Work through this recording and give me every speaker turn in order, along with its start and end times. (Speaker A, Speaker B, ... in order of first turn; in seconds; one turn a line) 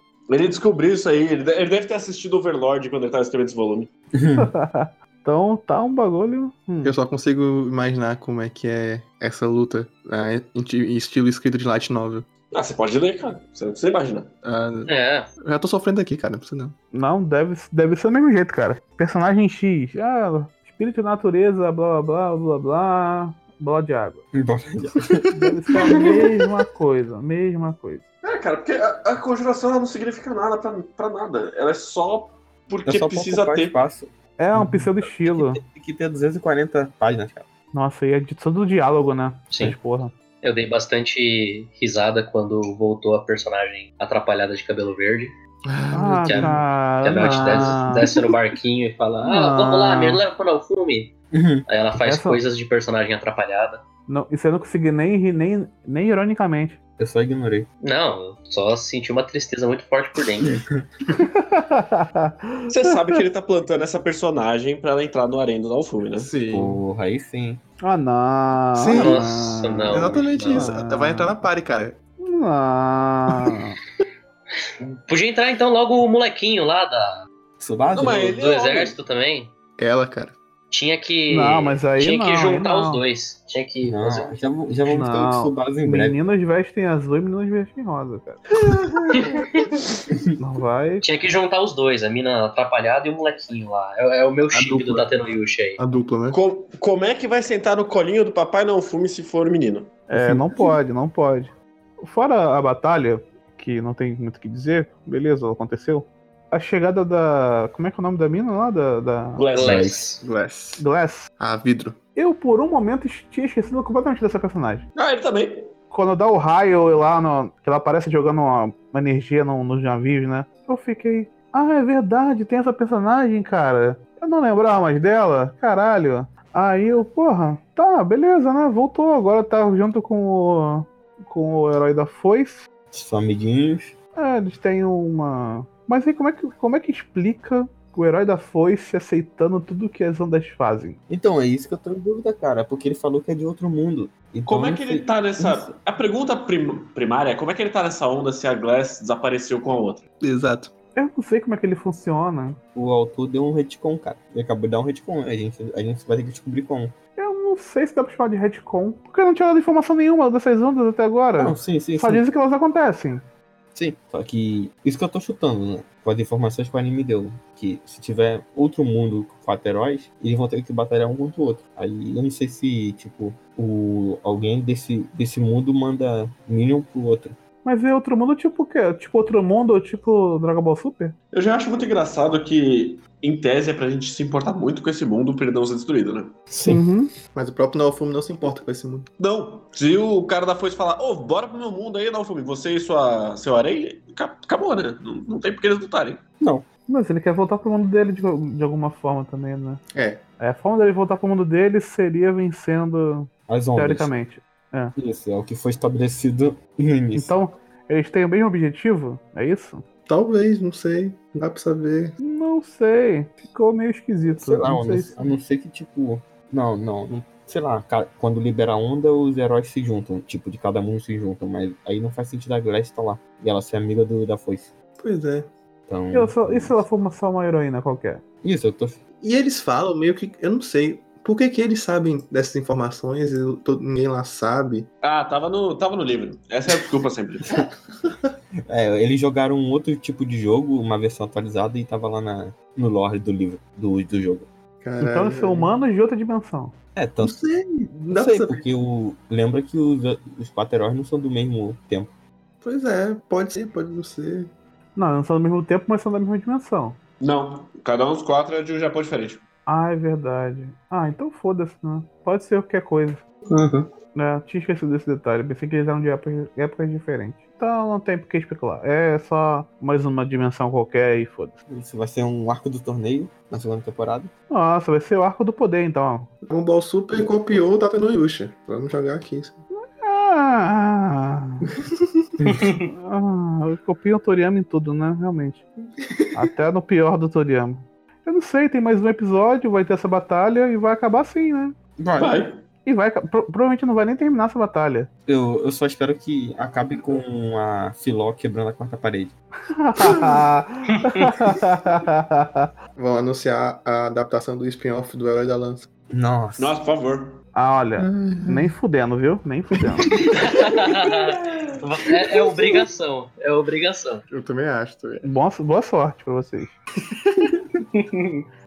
Speaker A: 0.3-3.9
Speaker B: 4.1-4.5
Speaker C: 4.4-7.0
Speaker D: 6.8-12.3
Speaker A: 12.5-14.3
Speaker D: 14.4-16.7
Speaker E: 14.9-15.3
Speaker C: 16.9-24.2
Speaker B: 24.3-25.3
Speaker C: 25.3-28.0
Speaker A: 28.2-33.8
Speaker B: 32.8-37.5
Speaker C: 34.4-35.6
Speaker C: 37.7-40.1
Speaker E: 40.4-45.4
Speaker D: 45.6-46.6
Speaker C: 45.9-48.0
Speaker E: 46.1-51.1
Speaker C: 49.2-50.2
Speaker B: 51.3-51.6
Speaker E: 51.7-53.8
Speaker C: 52.0-52.4
Speaker C: 54.1-56.8
Speaker B: 57.0-57.7
Speaker E: 57.8-60.6
Speaker B: 60.4-60.8
Speaker C: 61.2-62.7
Speaker A: 62.7-66.3
Speaker D: 66.2-66.8
Speaker B: 66.5-67.6
Speaker C: 67.8-71.4
Speaker D: 68.7-72.0
Speaker E: 69.0-70.7
Speaker C: 72.2-73.8
Speaker E: 74.8-77.2
Speaker B: 77.6-78.3
Speaker A: 77.9-78.9
Speaker E: 78.1-79.5
Speaker D: 79.8-80.3
Speaker E: 80.7-84.4
Speaker C: 81.3-83.0
Speaker B: 83.8-86.2
Speaker C: 84.9-88.4
Speaker C: 90.4-91.0
Speaker E: 91.0-95.8
Speaker D: 94.5-95.1
Speaker D: 95.8-96.4
Speaker A: 96.3-99.9
Speaker C: 100.1-109.4
Speaker B: 100.1-100.7
Speaker A: 109.4-110.0
Speaker B: 109.6-110.0
Speaker E: 109.6-110.2
Speaker D: 110.2-110.8
Speaker C: 110.8-111.3
Speaker D: 111.4-112.0
Speaker C: 112.1-114.8
Speaker A: 114.9-115.7
Speaker C: 115.9-132.6
Speaker B: 132.9-133.9
Speaker C: 134.2-141.0
Speaker B: 141.1-145.7
Speaker A: 144.5-150.0
Speaker D: 150.2-150.7
Speaker C: 150.9-152.6
Speaker B: 152.7-156.9
Speaker C: 157.2-163.2
Speaker B: 161.4-162.2
Speaker B: 163.7-177.3
Speaker C: 177.6-181.1
Speaker A: 181.3-186.3
Speaker B: 186.5-186.8
Speaker C: 186.6-187.1
Speaker D: 187.3-189.1
Speaker A: 189.2-196.2
Speaker B: 196.4-196.7
Speaker C: 196.9-199.8
Speaker D: 199.9-200.2
Speaker C: 200.4-204.9
Speaker B: 203.5-204.1
Speaker B: 204.9-207.3
Speaker C: 207.1-209.8
Speaker D: 210.1-212.1
Speaker C: 212.2-215.2
Speaker B: 214.3-224.7
Speaker D: 225.0-225.5
Speaker B: 225.9-226.8
Speaker C: 226.1-228.2
Speaker B: 228.4-229.0
Speaker D: 229.2-234.9
Speaker A: 235.0-237.6
Speaker B: 238.7-244.5
Speaker D: 244.8-245.8
Speaker C: 245.0-246.7
Speaker B: 246.9-247.4
Speaker D: 247.2-248.6
Speaker B: 248.1-252.1
Speaker D: 252.6-254.5
Speaker C: 254.9-257.0
Speaker A: 257.2-259.4
Speaker C: 259.6-263.2
Speaker B: 263.5-263.9
Speaker C: 264.1-271.6
Speaker B: 271.7-274.3
Speaker C: 274.5-276.3
Speaker D: 276.4-279.6
Speaker C: 279.7-281.7
Speaker B: 282.4-282.6
Speaker C: 282.9-285.6
Speaker C: 286.3-291.8
Speaker B: 292.0-292.3
Speaker A: 292.2-292.6
Speaker C: 292.9-295.1
Speaker B: 295.3-299.3
Speaker C: 299.7-302.7
Speaker D: 302.9-305.9
Speaker B: 306.1-306.7
Speaker A: 306.6-307.4
Speaker C: 307.5-310.1
Speaker D: 308.0-308.7
Speaker E: 310.3-314.2
Speaker D: 314.3-315.3
Speaker C: 315.2-316.7
Speaker E: 317.9-318.4